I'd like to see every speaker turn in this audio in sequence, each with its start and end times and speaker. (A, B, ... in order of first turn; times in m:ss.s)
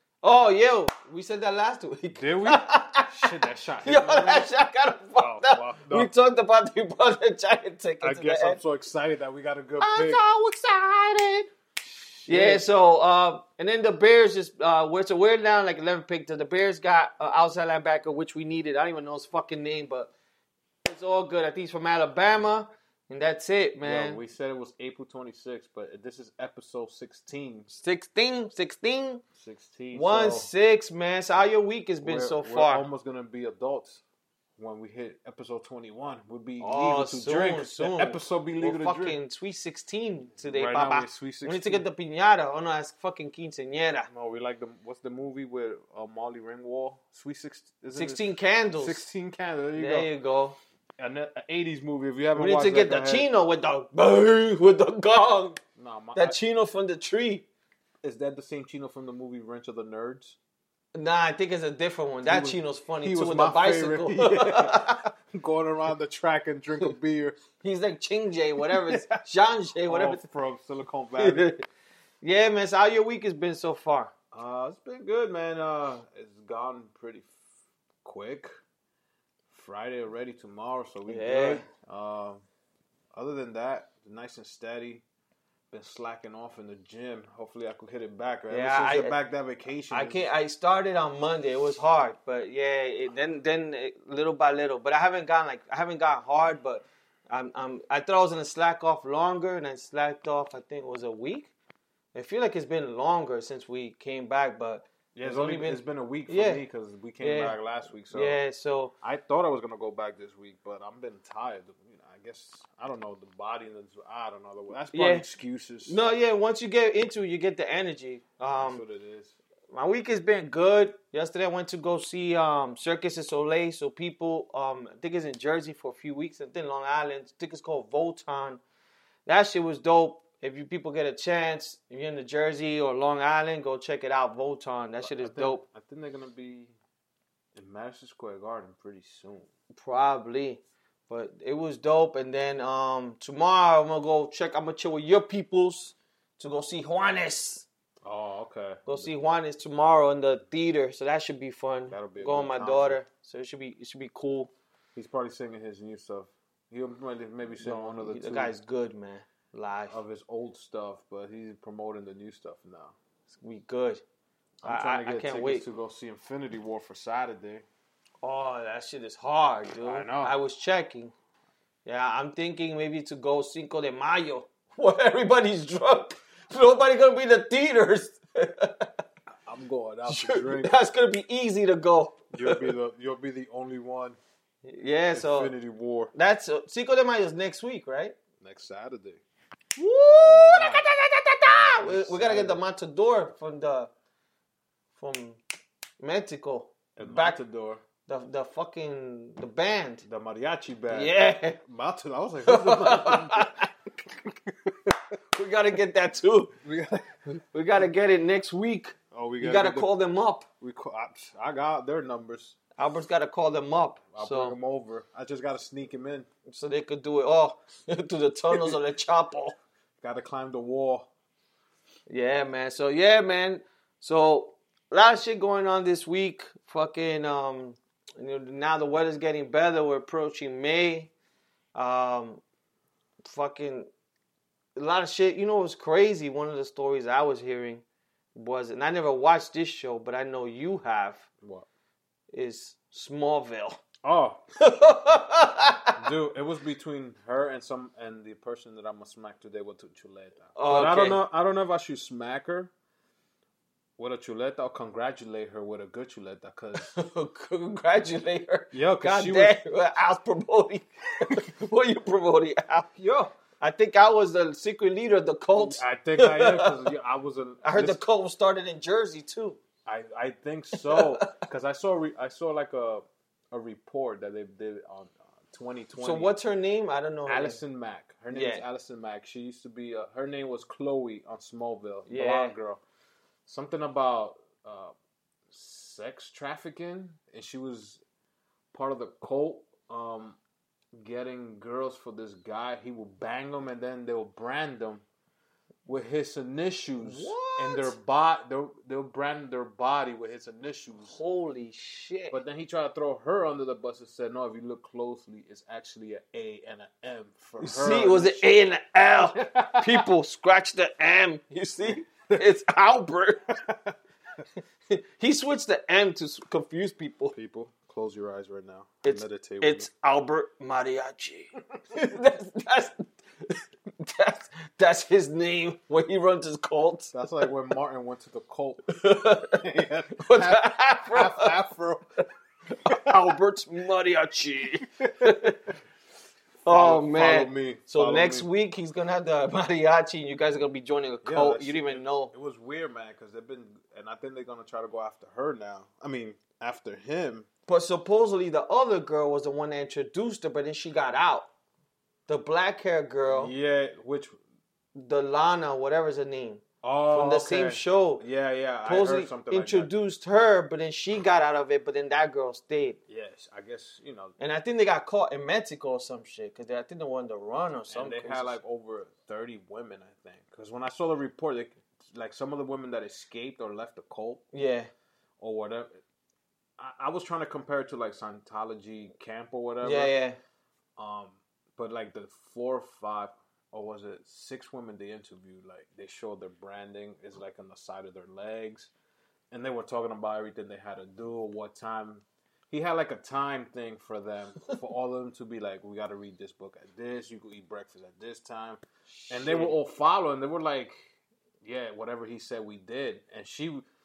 0:00.2-0:08.6 A
0:02.1-0:04.5 B
0:05.2-0:06.1 B
0:08.0-0:12.6 B
0:09.8-0:10.8 A
0:12.3-0:20.1 A
0:20.8-0:24.2 A
0:23.8-0:27.8 B
0:27.7-0:29.2 A
0:29.4-0:30.5 B
0:29.9-0:32.8 A
0:32.0-0:34.0 B
0:34.6-0:39.2 B
0:36.6-0:44.1 A
0:40.4-0:41.8 B
0:44.1-0:48.2 B
0:47.9-0:49.0 A
0:48.8-0:50.1 B
0:49.8-0:50.6 A
0:51.0-0:53.3 B
0:52.3-0:55.6 A
0:55.8-0:56.4 B
0:56.1-0:57.4 A
0:58.0-1:00.4 B
1:00.9-1:05.0 A
1:02.2-1:07.4 B
1:07.6-1:10.2 A
1:08.6-1:09.2 B
1:09.8-1:11.5 B
1:11.2-1:11.6 A
1:12.2-1:14.1 A
1:14.3-1:17.3 B
1:18.0-1:18.5 B
1:19.5-1:22.4 B
1:21.1-1:21.7 A
1:23.1-1:25.0 B
1:25.7-1:30.3 B
1:28.5-1:29.1 A
1:29.9-1:41.5 A
1:42.1-1:46.6 A
1:45.1-1:48.4 B
1:47.2-1:47.6 A
1:48.1-1:48.9 A
1:49.0-1:56.0 B
1:54.9-1:55.2 A
1:55.8-1:58.8 A
1:58.6-1:59.4 B
1:59.7-2:08.6 A
2:09.2-2:15.6 A
2:15.0-2:16.7 B
2:17.5-2:19.5 B
2:19.7-2:27.6 A
2:28.0-2:29.1 B
2:28.8-2:34.5 A
2:31.9-2:33.0 B
2:35.0-2:38.5 B
2:37.6-2:40.0 A
2:39.9-2:42.9 B
2:43.3-2:44.0 A
2:44.6-2:47.6 B
2:44.6-2:45.6 A
2:48.2-2:51.1 A
2:49.8-2:50.3 B
2:51.8-2:58.9 A
2:59.4-3:00.7 B
3:00.0-3:02.7 A
3:02.3-3:04.2 B
3:04.6-3:05.5 A
3:05.1-3:06.1 B
3:06.1-3:08.2 A
3:08.4-3:09.2 B
3:09.8-3:13.9 A
3:10.2-3:10.9 B
3:11.5-3:12.6 B
3:15.0-3:15.4 A
3:16.0-3:17.4 A
3:17.0-3:17.8 B
3:18.0-3:20.0 A
3:20.0-3:23.6 B
3:20.9-3:21.6 A
3:22.4-3:23.7 A
3:24.6-3:25.0 B
3:25.3-3:26.5 A
3:26.6-3:27.1 B
3:27.3-3:30.4 A
3:29.1-3:29.9 B
3:30.6-3:32.6 B
3:32.8-3:34.6 A
3:34.1-3:36.3 B
3:36.5-3:39.6 A
3:38.5-3:38.8 B
3:40.0-3:41.1 B
3:42.1-3:51.1 A
3:51.7-3:52.4 A
3:53.2-3:53.9 A
3:54.8-3:57.8 A
3:58.3-4:01.3 A
4:02.3-4:03.8 A
4:04.0-4:04.4 B
4:04.6-4:06.0 A
4:06.0-4:12.7 B
4:10.5-4:11.2 A
4:14.0-4:16.9 B
4:16.7-4:26.9 A
4:18.7-4:19.6 B
4:25.5-4:28.0 B
4:27.6-4:29.6 A
4:29.8-4:36.3 B
4:30.8-4:31.4 A
4:36.0-4:37.6 A
4:37.2-4:42.8 B
4:38.3-4:38.6 A
4:42.1-4:42.6 A
4:43.4-4:44.9 B
4:45.5-4:48.0 B
4:48.7-4:50.4 B
4:50.9-4:55.0 B
4:55.8-5:01.2 B
4:57.0-4:57.9 A
5:01.0-5:02.4 A
5:02.3-5:08.5 B
5:07.6-5:13.5 A
5:09.3-5:10.1 B
5:11.8-5:12.4 B
5:13.6-5:13.9 B
5:14.9-5:17.3 A
5:17.3-5:19.9 B
5:19.0-5:27.1 A
5:27.1-5:32.0 B
5:28.9-5:31.6 A
5:32.7-5:35.6 A
5:32.9-5:33.4 B
5:35.0-5:35.7 B
5:36.6-5:38.5 B
5:36.6-5:42.3 A
5:41.2-5:47.5 B
5:47.7-5:51.5 A
5:52.3-5:53.5 A
5:53.2-5:54.4 B
5:54.9-5:58.2 A
5:56.8-5:59.9 B
5:58.8-6:03.0 A
6:03.1-6:04.3 B
6:04.4-6:08.6 A
6:07.9-6:14.4 B
6:14.5-6:14.9 A
6:15.4-6:16.0 B
6:16.8-6:20.1 B
6:19.8-6:20.4 A
6:21.0-6:28.9 B
6:29.5-6:41.1 B
6:39.1-6:39.8 A
6:41.6-6:43.8 B